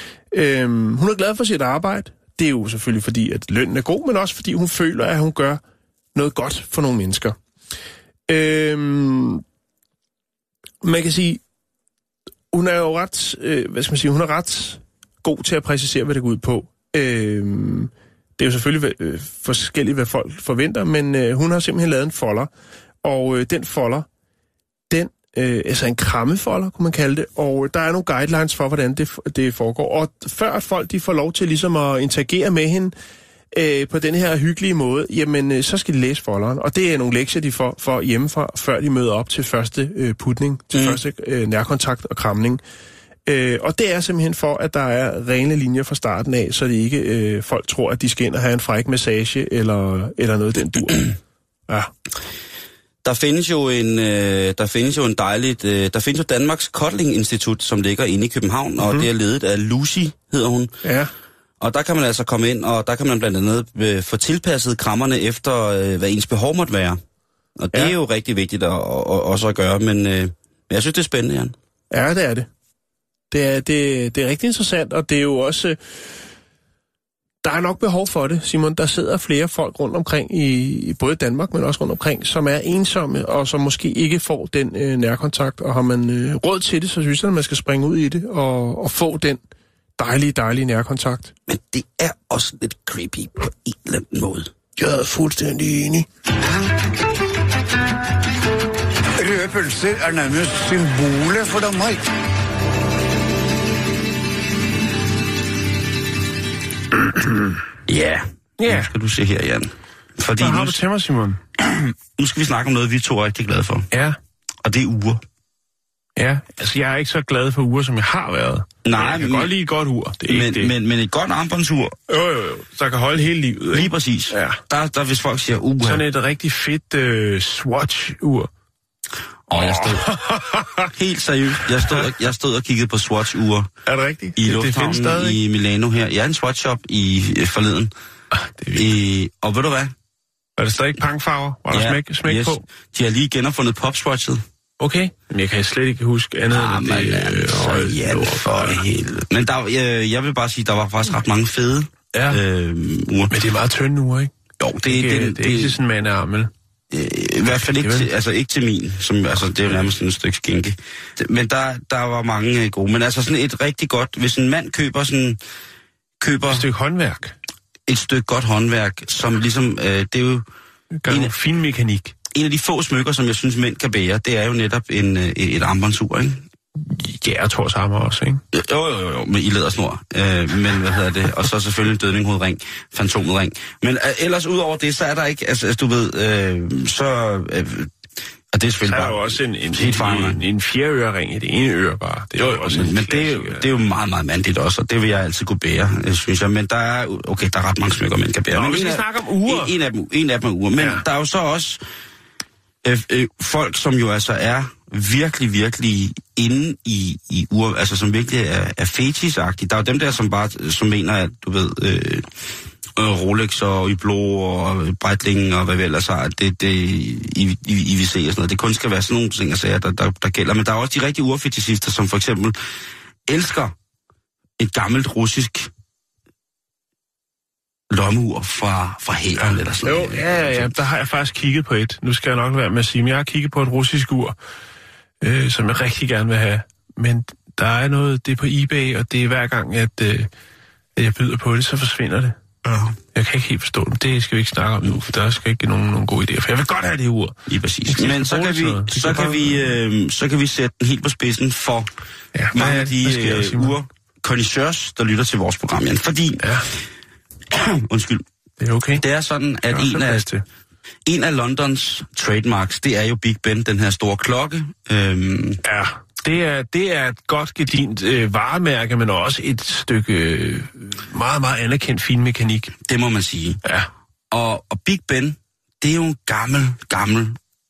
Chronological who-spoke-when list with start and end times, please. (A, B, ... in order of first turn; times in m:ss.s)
0:00.3-0:05.6 A
0:06.2-0:07.4 A
0:08.3-0:09.4 A
0:10.8-0:11.4 A
0:12.5-0:22.5 A
0:23.0-0:24.1 A
0:24.9-0:32.9 A
0:33.5-0:42.6 A
0:40.7-0:41.0 B
0:43.3-0:51.2 A
0:53.0-1:00.7 B
0:58.8-0:59.1 A
1:00.8-1:01.1 A
1:01.6-1:07.0 B
1:07.6-1:11.6 B
1:11.9-1:12.5 A
1:13.3-1:15.8 A
1:17.4-1:29.4 A
1:30.0-1:31.3 A
1:31.5-1:34.5 B
1:34.8-1:36.1 A
1:39.2-1:42.1 C
1:47.9-1:50.8 B
1:48.6-1:48.9 A
1:50.4-1:51.4 A
1:51.6-1:53.9 B
1:53.9-1:54.2 A
1:54.6-1:55.2 B
1:56.2-2:00.7 A
1:58.8-1:59.5 B
2:00.3-2:02.0 B
2:02.1-2:04.6 A
2:03.7-2:06.0 B
2:05.8-2:08.5 A
2:09.5-2:10.1 B
2:09.5-2:10.9 A
2:10.9-2:13.7 B
2:13.9-2:15.4 A
2:14.4-2:17.9 B
2:18.3-2:18.9 A
2:18.7-2:19.9 B
2:20.6-2:22.6 A
2:21.7-2:24.4 B
2:24.8-2:28.8 A
2:26.5-2:33.4 B
2:32.1-2:32.4 A
2:33.3-2:34.3 A
2:34.6-2:35.8 B
2:34.8-2:36.5 A
2:36.9-2:45.4 B
2:37.8-2:38.1 A
2:46.2-2:46.6 B
2:46.5-2:47.4 A
2:47.9-2:50.5 B
2:51.0-2:52.1 A
2:51.1-2:51.3 B
2:52.3-2:56.5 B
2:56.8-2:58.4 A
2:58.5-3:07.9 B
3:08.5-3:10.4 B
3:08.8-3:13.7 A
3:12.4-3:21.8 B
3:18.5-3:19.8 A
3:20.8-3:21.0 A
3:22.8-3:32.3 B
3:33.0-3:42.6 B
3:43.3-3:43.7 B
3:44.6-3:45.7 B
3:47.9-3:50.7 B
3:49.4-3:54.4 A
3:55.2-4:00.3 A
4:01.0-4:02.4 A
4:02.6-4:03.0 B
4:03.1-4:07.4 A
4:07.5-4:11.9 B
4:07.9-4:09.7 A
4:12.3-4:13.8 A
4:12.5-4:16.4 B
4:16.4-4:16.7 A
4:17.5-4:18.2 B
4:18.6-4:19.0 A
4:19.0-4:20.3 B
4:19.7-4:20.4 A
4:21.1-4:25.6 B
4:25.6-4:32.7 A
4:32.8-4:33.6 B
4:33.6-4:33.9 A
4:34.3-4:37.4 B